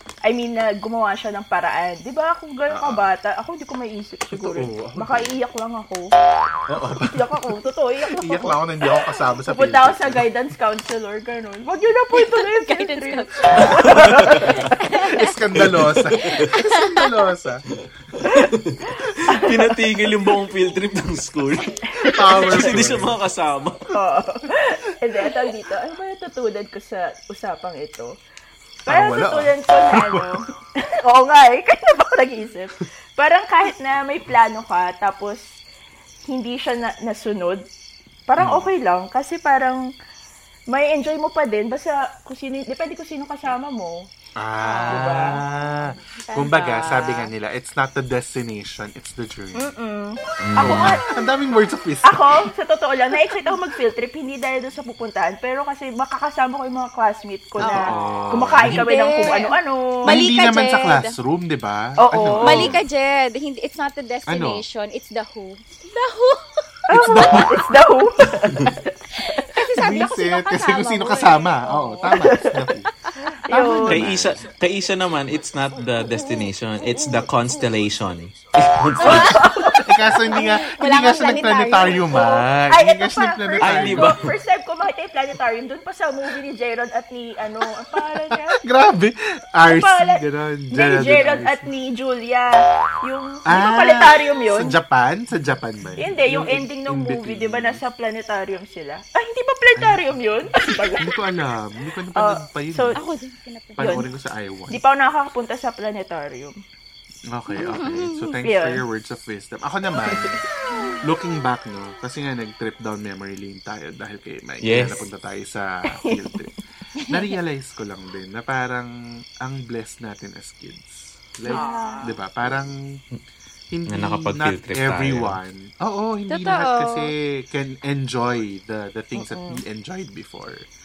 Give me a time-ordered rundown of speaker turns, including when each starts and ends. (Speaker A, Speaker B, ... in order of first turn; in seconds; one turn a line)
Speaker A: 0.2-6.1
Speaker B: 2.7-3.1
Speaker B: 4.3-5.4
Speaker B: 6.7-7.2
Speaker A: 7.1-14.8
Speaker B: 8.1-10.3
Speaker C: 12.2-14.0
Speaker B: 14.3-17.6
Speaker C: 14.6-15.3
Speaker D: 18.2-23.9
Speaker A: 19.0-19.7
Speaker A: 21.9-22.9
Speaker B: 22.1-23.2
Speaker A: 23.9-28.2
Speaker A: 28.8-35.6
Speaker B: 28.9-30.4
Speaker A: 36.3-37.7
Speaker A: 38.3-39.9
Speaker B: 38.4-38.7
Speaker A: 40.7-44.1
Speaker B: 44.4-49.8
Speaker C: 44.6-47.3
Speaker A: 44.9-45.3
Speaker A: 49.5-51.0
Speaker D: 50.4-51.0
Speaker B: 50.6-52.5
Speaker A: 52.0-60.2
Speaker C: 57.6-61.1
Speaker B: 57.6-59.4
Speaker B: 60.0-62.8
Speaker A: 62.0-62.8
Speaker C: 62.4-66.6
Speaker B: 64.3-64.6
Speaker A: 66.9-68.9
Speaker B: 66.9-67.7
Speaker C: 69.2-72.2
Speaker B: 69.7-72.9
Speaker A: 72.2-72.6
Speaker A: 73.3-74.1
Speaker B: 73.5-74.4
Speaker D: 73.9-79.5
Speaker C: 79.0-79.6
Speaker A: 79.0-79.8
Speaker B: 79.8-84.2
Speaker C: 80.3-82.4
Speaker A: 82.7-88.6
Speaker D: 83.6-84.2
Speaker B: 88.3-91.7
Speaker A: 89.6-94.7
Speaker B: 93.5-97.8
Speaker A: 96.0-101.2
Speaker B: 99.7-100.1
Speaker B: 101.0-103.0
Speaker A: 102.2-103.0
Speaker C: 102.9-104.1
Speaker A: 103.8-104.0
Speaker B: 103.8-104.8
Speaker A: 104.7-106.6
Speaker B: 107.3-110.4
Speaker C: 107.6-108.3
Speaker A: 108.4-108.8
Speaker A: 110.0-110.9
Speaker C: 110.7-111.0
Speaker B: 111.0-116.5
Speaker D: 114.6-115.0
Speaker B: 117.1-123.0
Speaker C: 121.5-122.1
Speaker A: 121.5-122.1
Speaker B: 123.7-130.7
Speaker D: 123.9-125.3
Speaker C: 126.3-127.1
Speaker A: 129.2-129.6